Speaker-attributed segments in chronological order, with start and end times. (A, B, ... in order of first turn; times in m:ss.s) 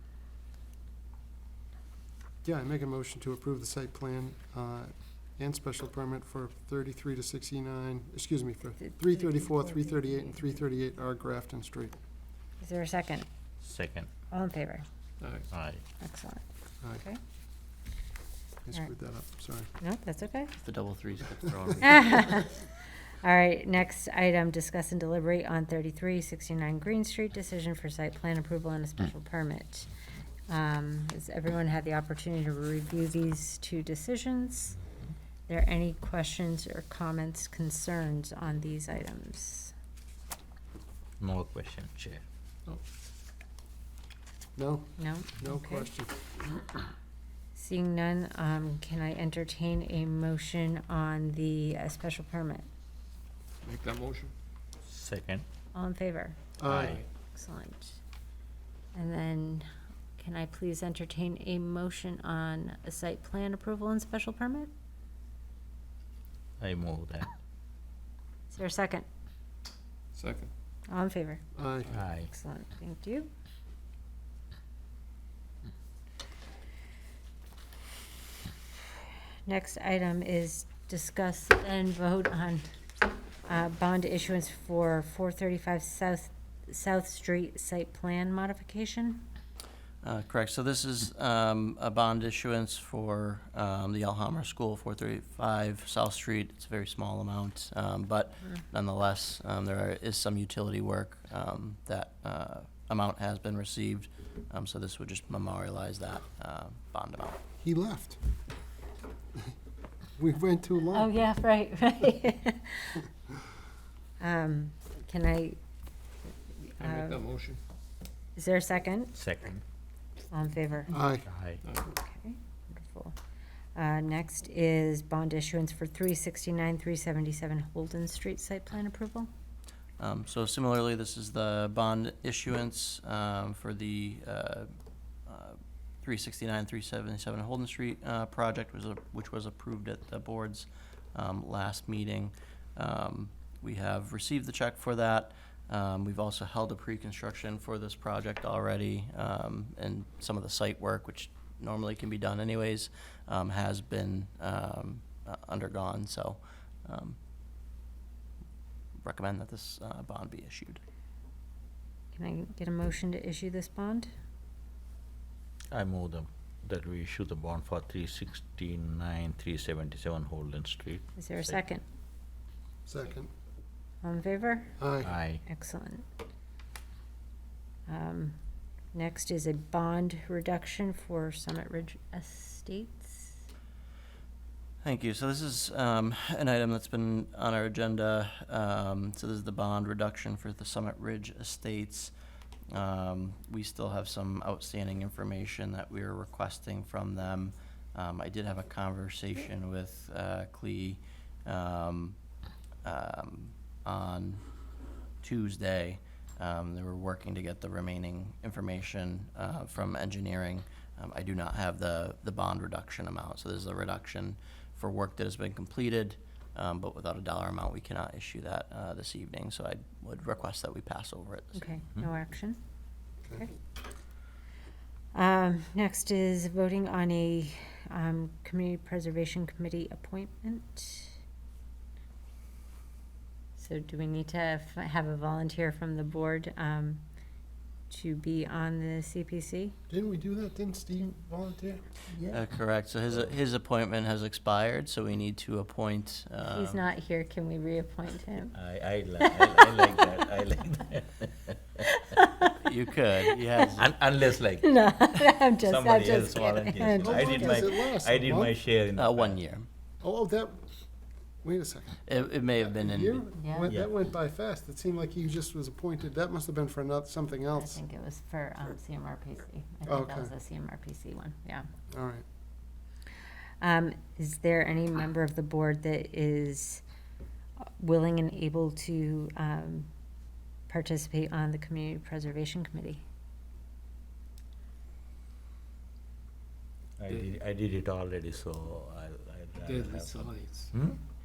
0:02.4-0:11.9 A
0:08.8-0:10.6 B
0:12.6-0:13.3 B
0:13.6-0:14.1 C
0:14.3-0:14.8 B
0:15.2-0:15.4 D
0:15.5-0:15.8 C
0:16.0-0:16.4 B
0:18.6-0:19.7 A
0:19.8-0:20.5 B
0:20.6-0:22.4 E
0:21.8-0:22.6 B
0:23.2-0:29.9 B
0:30.5-0:34.8 B
0:35.5-0:39.7 B
0:41.2-0:42.2 C
0:44.6-0:46.3 A
0:45.0-0:45.9 B
0:47.5-0:52.7 B
0:53.6-0:54.3 D
0:54.8-0:55.4 C
0:55.7-0:56.4 B
0:56.6-0:57.0 A
0:56.7-0:57.0 C
0:57.3-0:58.0 B
0:58.9-1:04.7 B
1:06.6-1:07.3 C
1:08.5-1:09.0 B
1:10.9-1:11.4 B
1:11.6-1:11.9 A
1:11.9-1:12.3 C
1:12.3-1:13.3 B
1:19.4-1:22.6 B
1:23.4-1:29.2 B
1:30.0-1:47.4 E
1:47.6-1:48.2 A
1:50.2-1:51.1 A
1:50.9-1:53.0 B
1:54.2-1:55.6 B
1:56.5-1:57.2 B
1:56.8-1:57.6 D
1:58.4-1:59.2 B
1:59.1-1:59.6 C
2:00.3-2:01.0 B
2:00.9-2:01.3 A
2:01.3-2:01.6 C
2:01.9-2:03.2 B
2:03.7-2:09.3 B
2:10.0-2:14.7 E
2:15.3-2:37.2 E
2:39.0-2:40.8 E
2:42.1-2:44.1 B
2:45.7-2:51.6 C
2:51.2-2:51.8 B
2:52.8-2:53.3 A
2:54.0-2:54.8 B
2:54.8-2:55.1 A
2:55.0-2:55.4 C
2:55.4-2:56.1 B
2:57.9-2:58.4 B
2:58.9-3:03.4 B
3:04.8-3:12.1 E
3:12.7-3:22.2 E
3:22.8-3:24.4 E
3:25.2-3:41.6 E
3:41.5-3:42.6 B
3:45.1-3:51.2 B
3:53.6-3:57.0 B
3:57.9-3:59.8 B
3:59.9-4:01.8 A
4:02.2-4:06.8 E
4:06.4-4:08.6 B
4:08.5-4:11.8 C
4:09.2-4:10.0 B
4:11.8-4:12.5 B
4:12.4-4:13.9 E
4:13.8-4:19.4 C
4:14.6-4:17.8 B
4:17.0-4:18.5 A
4:18.9-4:19.6 E
4:20.0-4:20.6 A
4:21.4-4:22.0 A
4:22.0-4:23.2 E
4:22.7-4:27.8 A
4:23.4-4:23.7 B
4:23.7-4:24.0 C
4:27.5-4:31.7 B
4:29.8-4:30.3 A
4:31.9-4:32.2 A
4:33.6-4:36.8 B
4:37.6-4:39.9 B
4:40.7-4:43.0 B
4:47.0-4:51.0 C
4:49.8-4:50.7 D